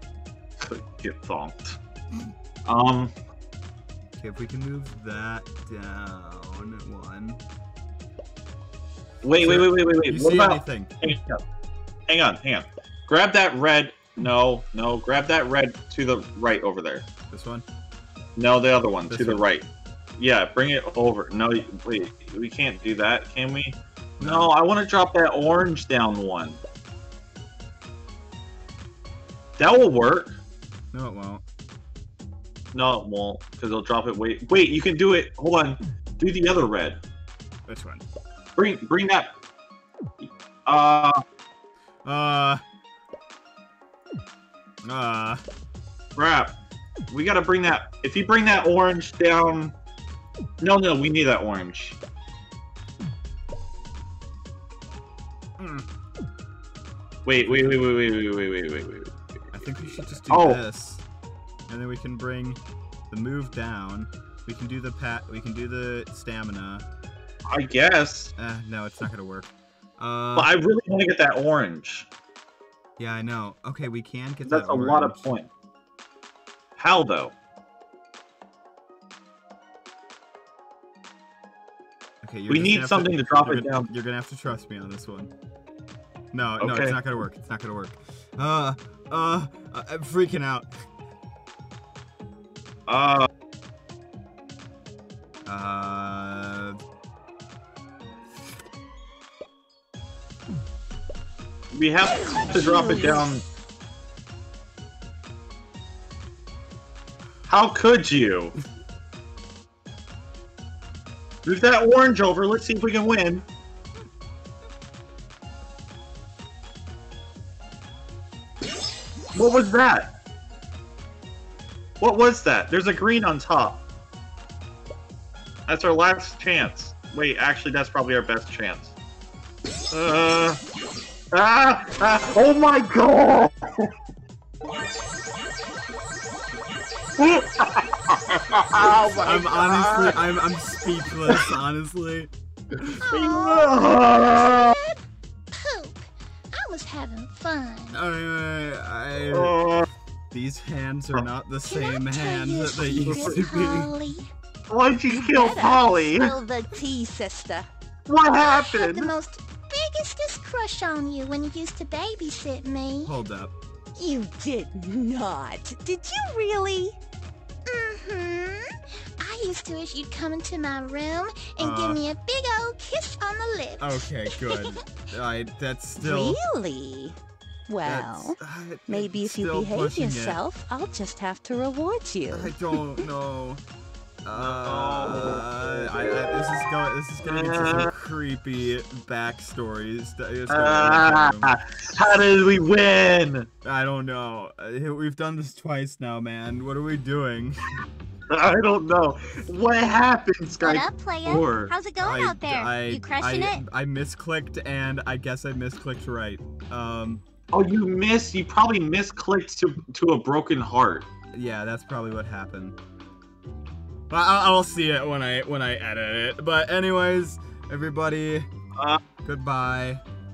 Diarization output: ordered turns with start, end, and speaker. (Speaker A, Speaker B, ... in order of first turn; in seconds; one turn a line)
Speaker A: 0.6-1.8
Speaker A: 2.6-3.1
Speaker B: 4.2-7.5
Speaker A: 9.2-11.4
Speaker B: 9.4-10.9
Speaker A: 12.1-17.1
Speaker B: 17.3-17.6
Speaker A: 18.4-26.6
Speaker B: 19.1-19.4
Speaker B: 24.2-24.5
Speaker A: 29.6-30.4
Speaker B: 30.9-31.4
Speaker A: 32.7-37.0
Speaker B: 37.7-38.0
Speaker A: 38.6-39.4
Speaker A: 40.2-41.2
Speaker B: 42.0-42.6
Speaker B: 44.8-45.4
Speaker A: 46.1-46.5
Speaker A: 47.1-49.7
Speaker A: 50.6-52.0
Speaker B: 55.6-55.9
Speaker A: 57.2-59.1
Speaker B: 57.4-57.9
Speaker B: 59.5-61.0
Speaker A: 60.3-60.6
Speaker B: 61.7-66.9
Speaker A: 67.5-68.3
Speaker B: 68.4-70.5
Speaker A: 70.3-72.1
Speaker B: 73.0-75.3
Speaker A: 74.5-75.5
Speaker A: 76.8-77.3
Speaker B: 82.2-85.3
Speaker A: 82.5-83.9
Speaker B: 86.3-90.7
Speaker A: 86.6-87.0
Speaker A: 92.9-93.3
Speaker B: 95.5-96.8
Speaker A: 101.7-103.4
Speaker A: 107.5-108.5
Speaker A: 111.5-113.5
Speaker A: 119.3-120.2
Speaker A: 122.0-123.8
Speaker A: 125.7-129.0
Speaker A: 129.9-130.6
Speaker A: 131.3-133.9
Speaker A: 137.2-140.2
Speaker B: 139.2-143.0
Speaker C: 143.0-148.0
Speaker A: 143.1-144.8
Speaker B: 147.9-149.5
Speaker A: 149.3-149.9
Speaker B: 150.3-154.0
Speaker C: 151.6-154.3
Speaker A: 153.1-153.3
Speaker A: 154.7-156.3
Speaker D: 155.1-157.7
Speaker A: 158.1-159.1
Speaker C: 158.4-163.1
Speaker B: 163.0-163.5
Speaker D: 163.9-167.0
Speaker C: 167.7-168.7
Speaker C: 169.2-174.7
Speaker B: 171.6-172.0
Speaker B: 173.8-176.4
Speaker D: 176.0-182.5
Speaker B: 177.8-180.4
Speaker B: 182.3-183.6
Speaker B: 184.2-191.5
Speaker A: 184.3-185.5
Speaker A: 187.2-187.9
Speaker A: 190.5-193.5
Speaker B: 193.6-197.6
Speaker A: 198.3-201.8
Speaker D: 200.6-203.6
Speaker B: 202.0-207.2
Speaker A: 207.5-211.1
Speaker B: 211.3-212.8
Speaker B: 214.1-218.5
Speaker B: 219.2-220.0